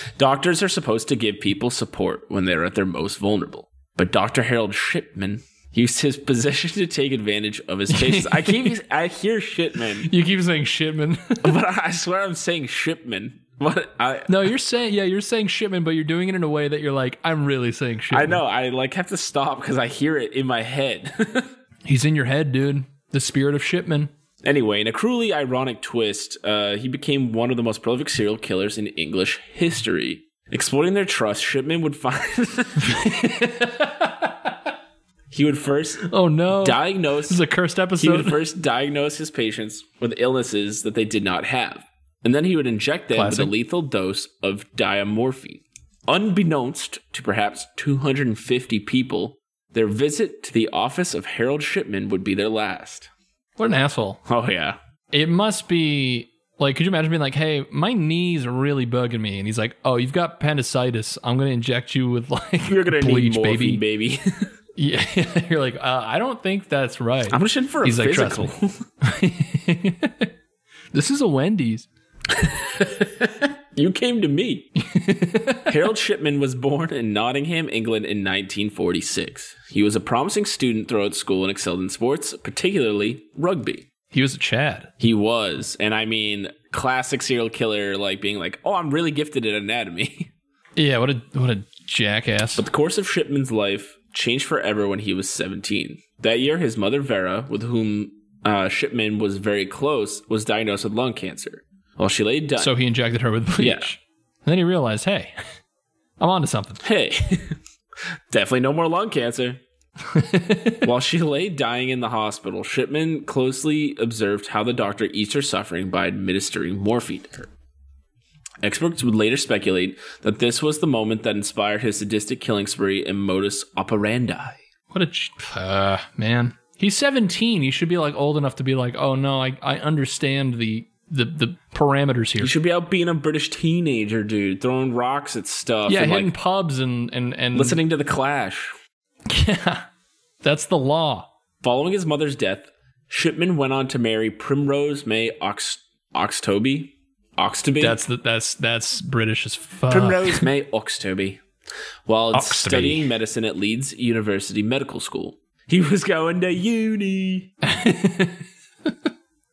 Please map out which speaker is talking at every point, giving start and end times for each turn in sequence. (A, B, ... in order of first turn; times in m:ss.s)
0:00.2-0:10.1 A
0:07.9-0:08.8 B
0:10.0-0:11.6 B
0:11.4-0:14.5 A
0:14.3-0:18.4 B
0:18.1-0:21.5 A
0:21.8-0:24.1 B
0:24.4-0:33.0 A
0:32.8-0:34.6 B
0:35.3-0:37.4 A
0:36.0-0:38.4 B
0:38.0-0:53.1 A
0:43.1-0:43.5 B
0:53.6-0:54.2 B
0:54.3-0:54.8 A
0:55.1-1:03.8 B
1:02.7-1:04.5 A
1:04.8-1:10.3 B
1:07.3-1:08.8 A
1:10.9-1:11.9 B
1:12.3-1:14.7 A
1:14.8-1:15.8 B
1:15.7-1:23.9 A
1:24.1-1:24.9 B
1:25.0-1:30.3 A
1:30.8-1:32.7 B
1:32.6-1:42.7 A
1:42.6-1:45.4 B
1:43.6-1:43.9 A
1:46.2-1:46.8 B
1:46.8-1:47.6 A
1:48.3-1:49.6 A
1:50.1-1:50.9 B
1:50.8-1:57.5 A
1:58.6-2:04.6 A
2:04.9-2:12.5 B
2:12.4-2:16.3 A
2:15.9-2:17.8 B
2:17.6-2:18.7 A
2:19.3-2:19.9 B
2:20.4-2:21.3 B
2:21.6-2:28.0 A
2:27.8-2:30.5 B
2:29.9-2:31.4 A
2:32.1-2:37.5 A
2:32.3-2:33.1 B
2:37.6-2:38.9 B